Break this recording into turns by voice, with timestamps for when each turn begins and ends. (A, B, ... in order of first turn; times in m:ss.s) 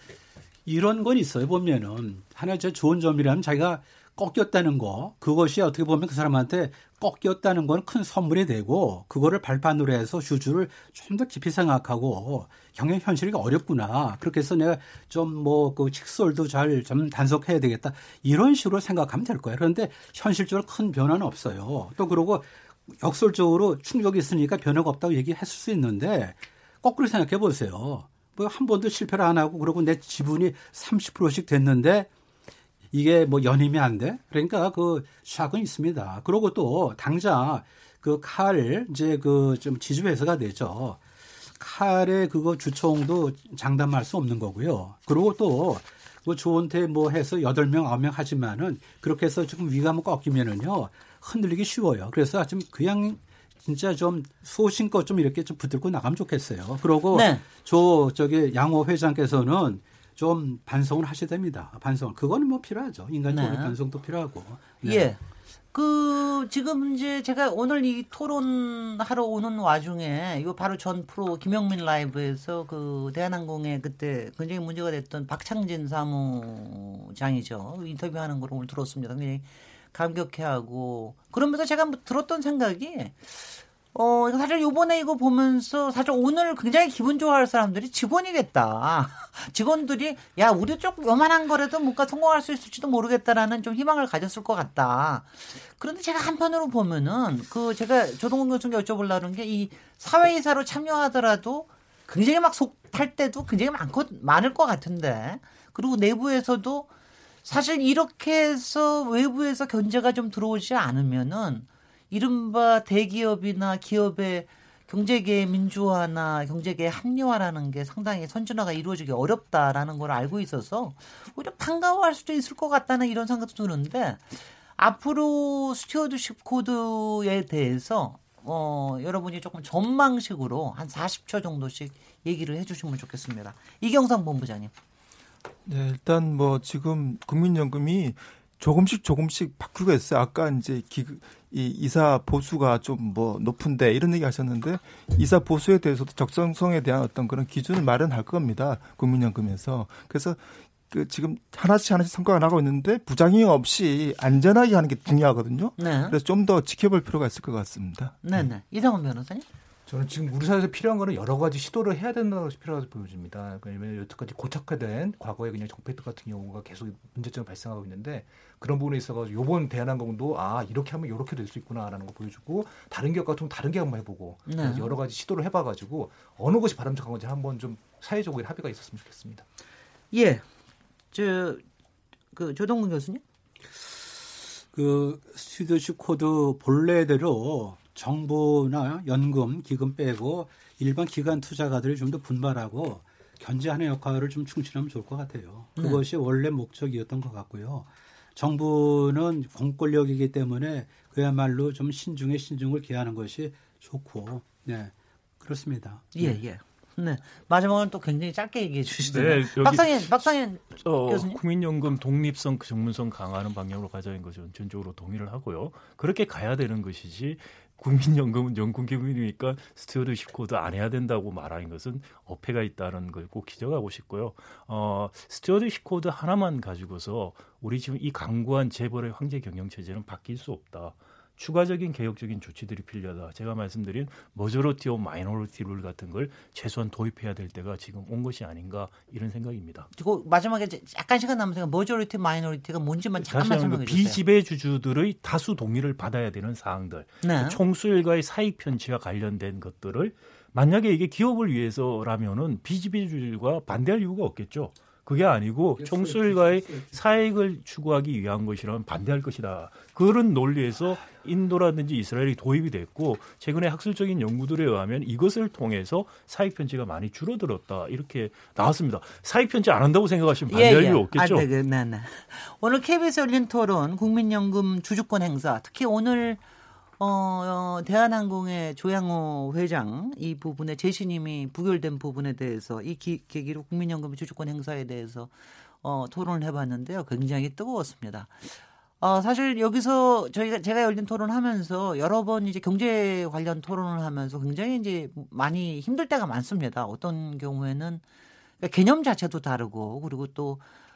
0:00.6-0:32.1 A
0:32.9-0:41.0 A
0:41.6-1:05.1 A
0:57.1-0:57.4 B
1:03.3-1:03.8 B
1:04.8-1:05.2 B
1:05.7-1:46.9 B
1:47.4-2:14.7 B
2:15.6-2:38.2 C
2:35.8-2:36.2 B
2:38.2-2:39.4 B
2:39.9-2:59.4 D
2:54.5-2:54.9 B
3:00.1-3:00.4 B
3:01.1-3:01.6 B
3:02.3-3:03.2 B
3:04.7-3:26.4 A
3:15.8-3:16.0 B
3:26.1-3:31.4 B
3:29.1-3:59.9 E
3:59.9-4:04.2 B
4:03.2-4:31.5 E
4:07.2-4:07.6 B
4:15.8-4:16.9 A
4:30.5-4:36.4 B
4:37.0-4:45.3 B
4:45.8-4:58.0 B
4:58.6-5:00.6 B